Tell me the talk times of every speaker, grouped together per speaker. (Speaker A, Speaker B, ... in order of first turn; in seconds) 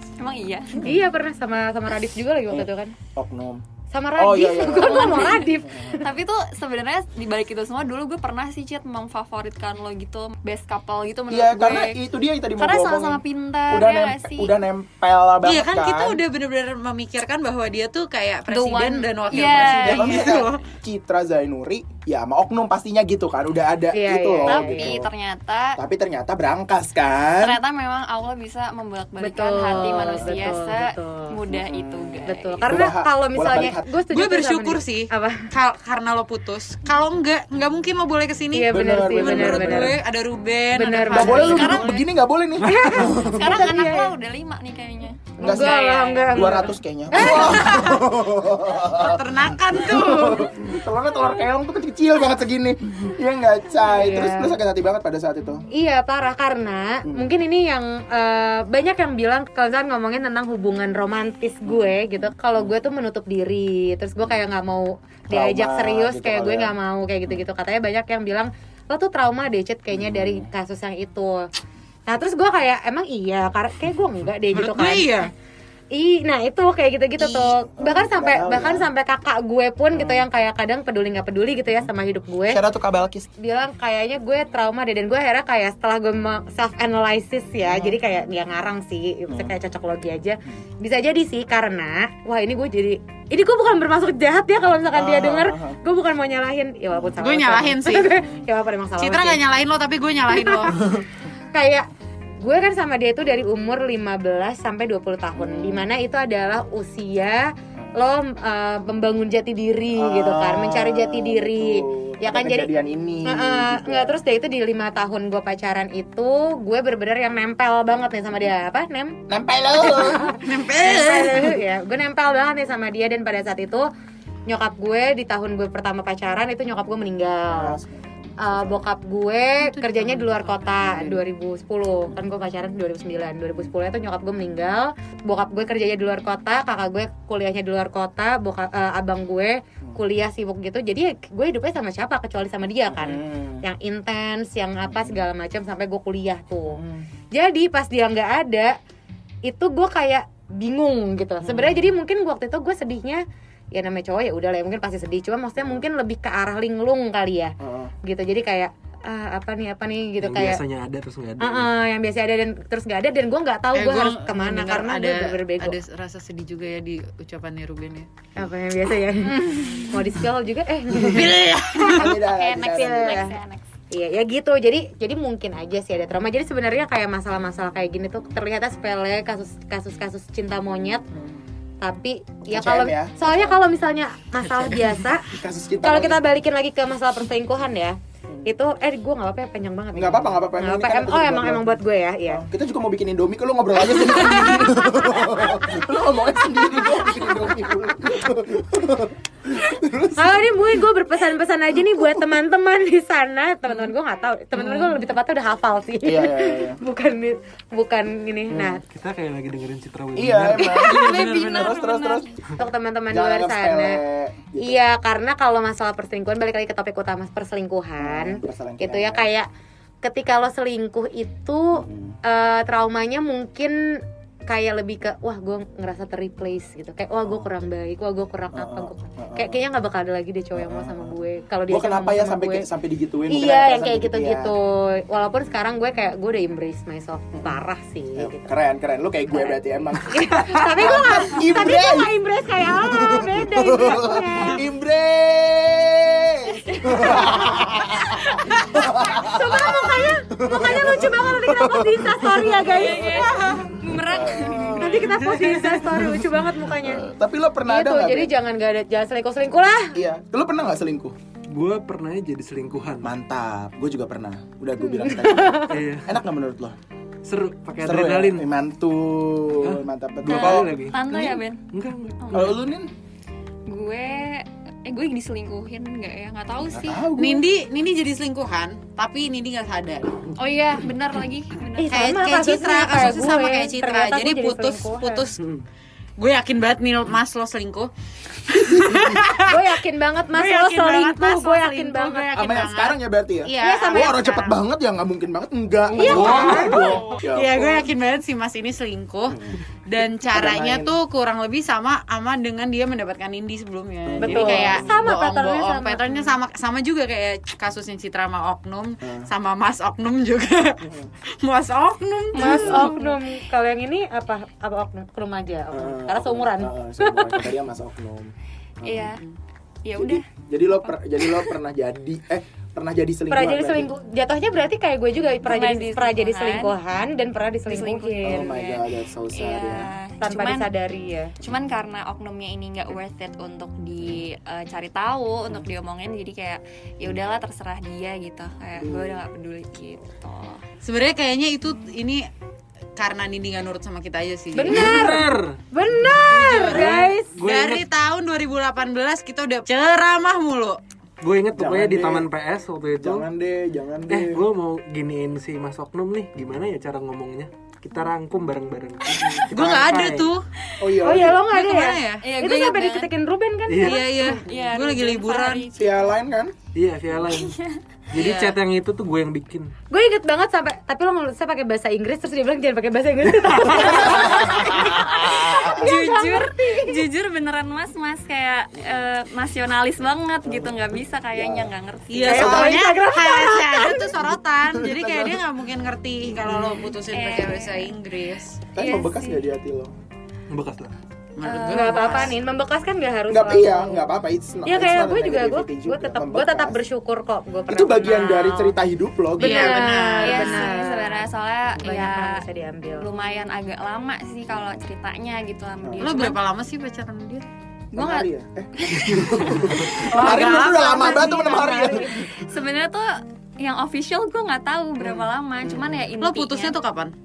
Speaker A: 0.2-0.8, 4.7-12.0, 12.6-14.5, 18.5-20.4, 24.5-25.8, 27.4-32.7, 43.1-47.8, 172.1-173.6, 210.6-212.3, 246.7-248.9, 252.6-255.7, 270.3-271.6, 272.2-272.6, 273.7-277.1, 280.4-282.2, 318.8-319.2, 319.9-320.2, 325.4-326.8, 327.7-330.7, 331.4-340.6, 362.2-363.1, 364.2-366.2, 367.3-367.8, 375.3-382.8, 386.5-388.0, 388.8-389.5, 391.4-392.4, 400.2-402.4, 403.0-406.4, 407.9-409.7, 412.2-416.8
Speaker B: 0.7-1.0, 2.5-3.6, 4.2-5.5, 11.3-16.2, 19.4-25.1, 25.8-27.6, 31.5-33.9, 38.7-40.0, 41.1-43.5, 45.4-55.6, 65.3-66.7, 69.9-70.5, 77.8-78.9, 79.9-80.2, 82.5-83.3, 87.6-88.0, 89.3-89.5, 94.9-95.8, 105.3-105.9, 110.0-114.2, 119.3-120.3, 127.5-128.8, 130.8-131.2, 142.9-143.6, 144.9-145.2, 146.7-147.1, 151.4-151.8, 157.6-157.9, 171.8-173.3, 181.1-181.4, 182.5-183.6, 185.3-186.3, 189.9-191.7, 192.3-200.8, 201.9-202.3, 206.0-206.8, 208.5-208.8, 210.2-212.3, 213.1-214.8, 218.0-219.3, 221.8-222.2, 228.5-229.6, 230.6-231.1, 231.7-234.5, 238.2-242.1, 242.6-252.8, 253.9-255.0, 256.8-258.3, 259.9-261.2, 263.0-266.8, 267.8-270.7, 272.3-272.9, 276.6-277.4, 288.5-289.2, 292.4-297.9, 299.3-299.6, 300.3-300.9, 304.1-304.9, 309.0-309.3, 310.8-311.1, 312.4-312.9, 315.7-319.2, 320.0-323.9, 328.2-329.9, 338.8-339.2, 351.5-352.3, 352.9-354.4, 359.1-359.5, 360.8-361.5, 365.7-366.6, 373.6-375.9, 380.4-381.7, 384.7-385.4, 388.8-389.9, 393.3-396.8, 397.7-399.8, 405.8-406.1, 407.9-412.2
Speaker C: 0.8-3.0, 3.9-6.1, 23.9-24.9, 29.2-31.3, 32.3-35.5, 38.5-40.0, 40.8-41.8, 42.6-44.1, 45.4-47.9, 53.8-54.6, 55.7-71.5, 72.1-75.1, 75.9-82.6, 83.4-99.4, 100.3-100.8, 101.5-101.9, 102.4-112.7, 113.2-119.2, 119.8-123.9, 124.5-127.8, 128.4-146.8, 147.3-148.7, 149.4-160.6, 161.4-165.8, 168.4-173.3, 173.9-181.0, 181.8-185.3, 185.8-192.4, 194.4-195.7, 196.7-198.1, 200.2-208.8, 212.6-214.0, 214.6-219.5, 220.0-232.7, 233.3-238.5, 239.3-244.6, 247.0-247.4, 248.8-253.6, 254.8-257.1, 257.7-260.0, 264.9-265.7, 281.8-285.3, 289.4-292.7, 293.6-294.6, 296.0-297.0, 304.2-306.2, 312.3-317.5, 323.3-328.5, 330.2-331.3, 344.5-347.3, 361.0-364.4, 369.9-377.1, 382.2-384.2, 391.7-394.1, 394.6-398.7, 399.4-401.3, 401.8-403.1, 410.1-412.2
Speaker D: 15.4-20.6, 34.1-42.0, 43.4-44.0, 47.2-48.0, 48.8-50.5, 74.5-75.3, 77.2-77.5, 97.2-98.2, 99.0-100.8, 119.9-121.6, 129.7-130.3, 163.8-168.1, 169.3-169.9, 171.0-172.2, 277.2-280.3, 281.9-285.5, 286.2-287.9, 288.5-289.6, 290.3-294.4, 296.0-310.8, 311.4-313.0, 340.8-342.3, 343.0-345.2, 346.1-350.8, 359.5-360.4, 361.3-362.2, 363.8-365.6, 368.2-368.6, 382.1-388.6, 391.4-392.4, 399.4-400.8, 406.0-407.5, 410.1-411.3, 415.0-417.1
Speaker E: 160.2-161.7, 208.8-211.6, 255.2-256.2, 261.5-263.1, 265.7-266.2, 267.2-268.5, 269.6-272.5, 296.0-297.0, 344.7-347.9, 351.2-353.3, 354.1-360.3, 363.7-364.1, 366.7-367.6, 368.1-369.7, 390.5-390.9